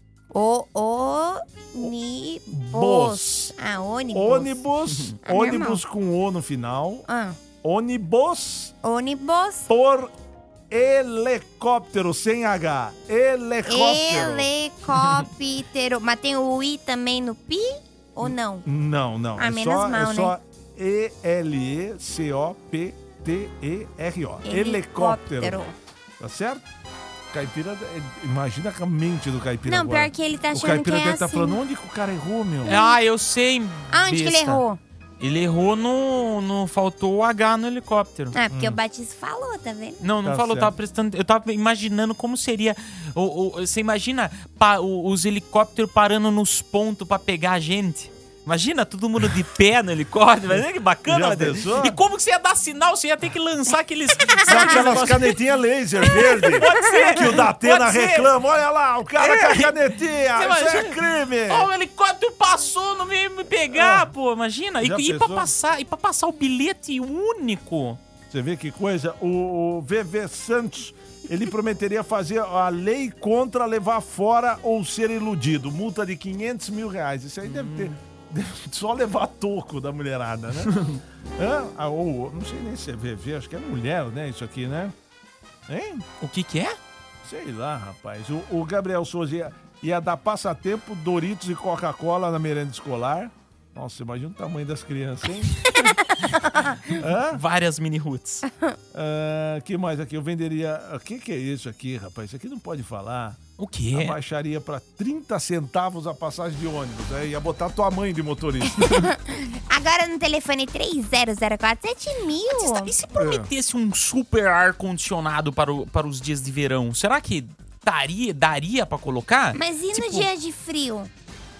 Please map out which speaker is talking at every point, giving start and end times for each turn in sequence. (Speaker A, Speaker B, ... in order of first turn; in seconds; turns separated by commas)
Speaker A: 0.3-4.6, Speaker B: 2.5-3.5, Speaker B: 4.1-7.0, Speaker A: 5.2-5.8, Speaker A: 7.1-7.4, Speaker B: 7.6-8.7, Speaker A: 8.8-9.7, Speaker B: 9.7-10.1, Speaker B: 10.7-14.5, Speaker A: 13.7-18.6, Speaker B: 18.2-25.6, Speaker A: 19.4-20.4, Speaker A: 24.4-25.8, Speaker B: 26.2-26.6, Speaker B: 27.3-32.8, Speaker A: 29.7-31.6, Speaker A: 32.7-33.0, Speaker C: 32.7-34.6, Speaker A: 33.9-34.8, Speaker C: 35.2-38.4, Speaker A: 38.3-40.0, Speaker B: 38.5-38.8, Speaker C: 40.0-55.4, Speaker B: 40.2-40.8, Speaker B: 51.1-52.0, Speaker B: 54.5-61.7, Speaker C: 56.1-58.3, Speaker C: 59.2-68.0, Speaker B: 63.7-64.1, Speaker B: 64.8-65.5, Speaker B: 68.3-80.8, Speaker C: 77.5-78.0, Speaker C: 80.7-81.0, Speaker B: 81.4-85.0, Speaker B: 85.7-86.1, Speaker C: 86.2-86.8, Speaker B: 87.2-95.5, Speaker B: 97.0-97.4, Speaker C: 97.3-98.5, Speaker B: 98.9-103.4, Speaker C: 103.6-104.2, Speaker B: 103.9-109.1, Speaker A: 108.8-112.9, Speaker C: 112.6-120.3, Speaker B: 113.2-113.5, Speaker A: 119.5-121.1